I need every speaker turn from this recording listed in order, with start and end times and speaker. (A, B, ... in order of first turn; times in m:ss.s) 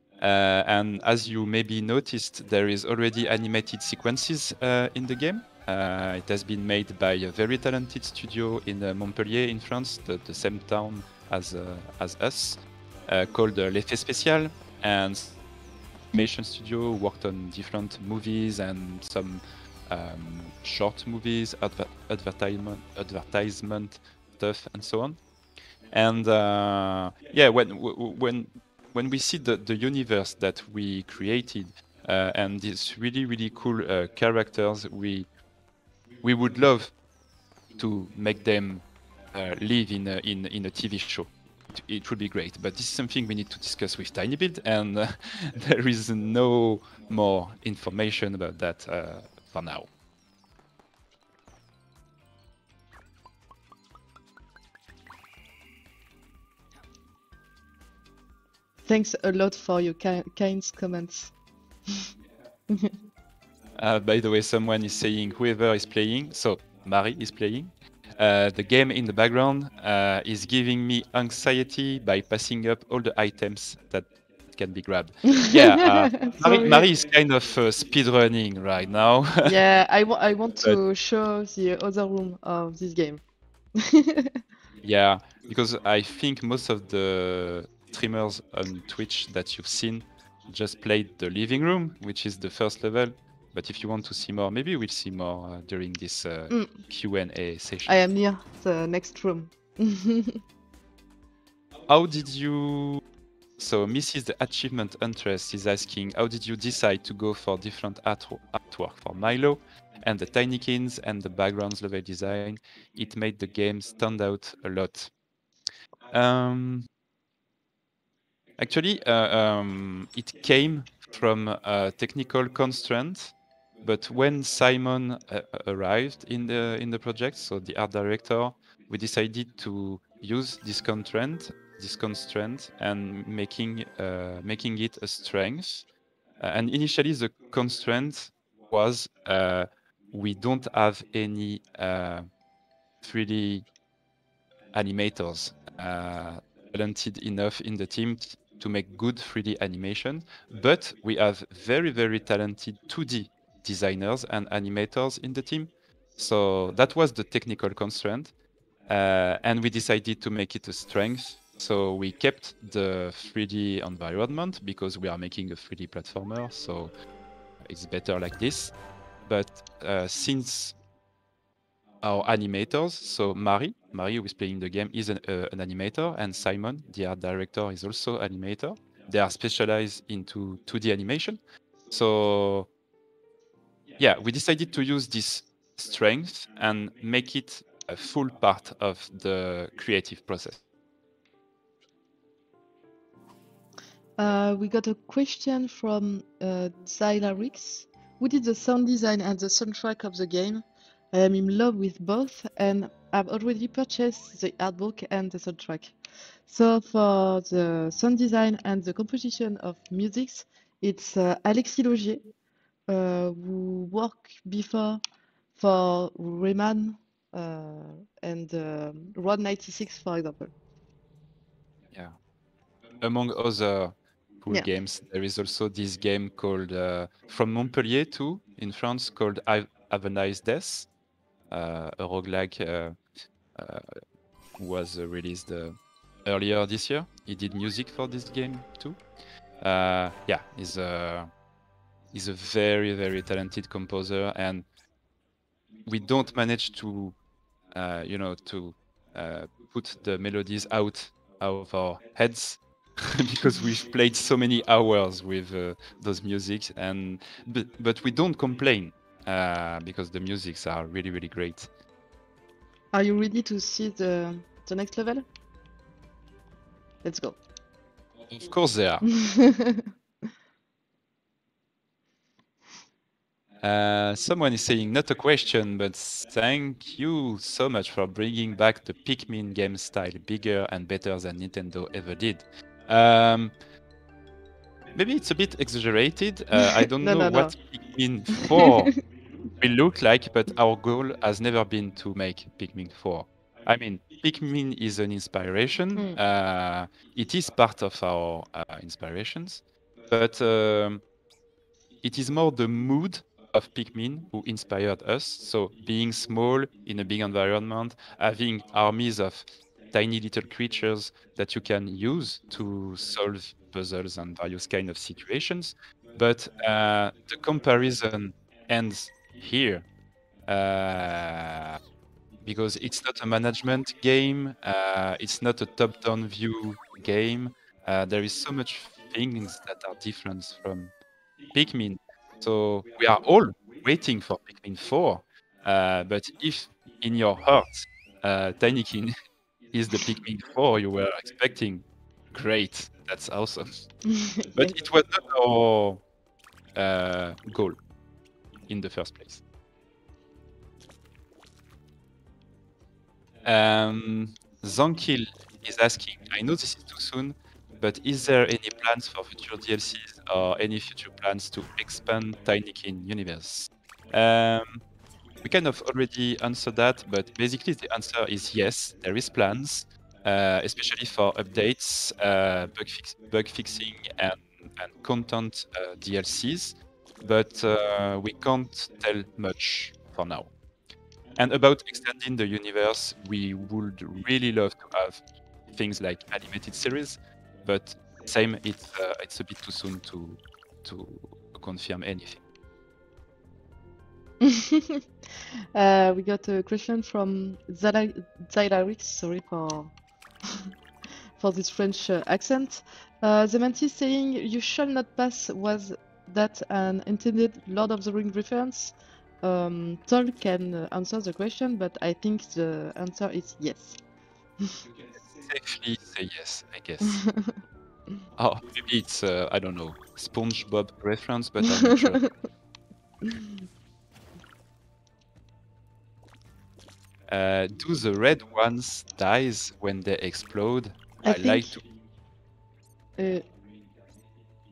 0:00.2-0:15.4 A
0:16.1-0:25.2 A
0:25.9-0:35.3 A
0:36.2-0:37.0 A
0:37.8-0:49.9 A
0:58.8-1:01.3 B
1:03.8-1:19.6 A
1:15.4-1:16.9 B
1:19.4-1:23.2 B
1:23.8-1:24.3 B
1:24.8-1:38.0 A
1:37.9-1:40.4 B
1:41.9-1:43.0 A
1:43.6-1:55.1 A
1:56.1-1:56.9 A
1:58.6-2:15.9 A
2:16.4-2:22.3 A
2:23.0-2:23.7 A
2:24.7-2:38.3 A
2:38.9-2:46.9 A
2:47.7-2:48.8 A
2:49.3-2:50.8 A
2:52.0-3:02.7 A
3:04.0-3:10.6 A
3:14.2-3:25.9 B
3:26.5-3:32.2 B
3:32.9-3:35.0 B
3:35.6-3:40.5 B
3:43.0-3:50.9 A
3:51.5-3:53.0 A
3:53.6-3:53.9 A
3:54.6-3:59.0 A
3:59.6-4:01.3 A
4:02.1-4:04.7 A
4:05.9-4:07.2 A
4:07.7-4:21.7 A
4:22.9-4:25.3 B
4:27.0-4:27.4 B
4:28.3-4:29.0 A
4:29.1-4:29.8 B
4:33.6-4:43.6 A
4:45.0-4:48.9 A
4:46.8-4:47.6 B
4:49.6-5:01.0 A
5:02.0-5:19.9 A
5:20.5-5:21.8 A
5:22.4-5:30.9 A
5:31.5-5:39.1 A
5:39.7-5:43.7 A
5:44.1-5:44.8 B
5:44.5-5:46.0 A
5:46.8-5:47.8 A
5:48.7-5:49.4 A
5:53.4-6:04.8 A
6:05.4-6:20.5 A
6:21.4-6:32.4 A
6:34.4-6:35.0 B
6:35.7-6:39.9 B
6:41.4-6:54.0 B
6:55.2-6:57.2 A
6:57.0-6:57.5 B
6:58.4-7:02.2 A
7:01.8-7:02.3 B
7:07.3-7:11.8 A
7:11.2-7:11.8 B
7:13.2-7:13.4 B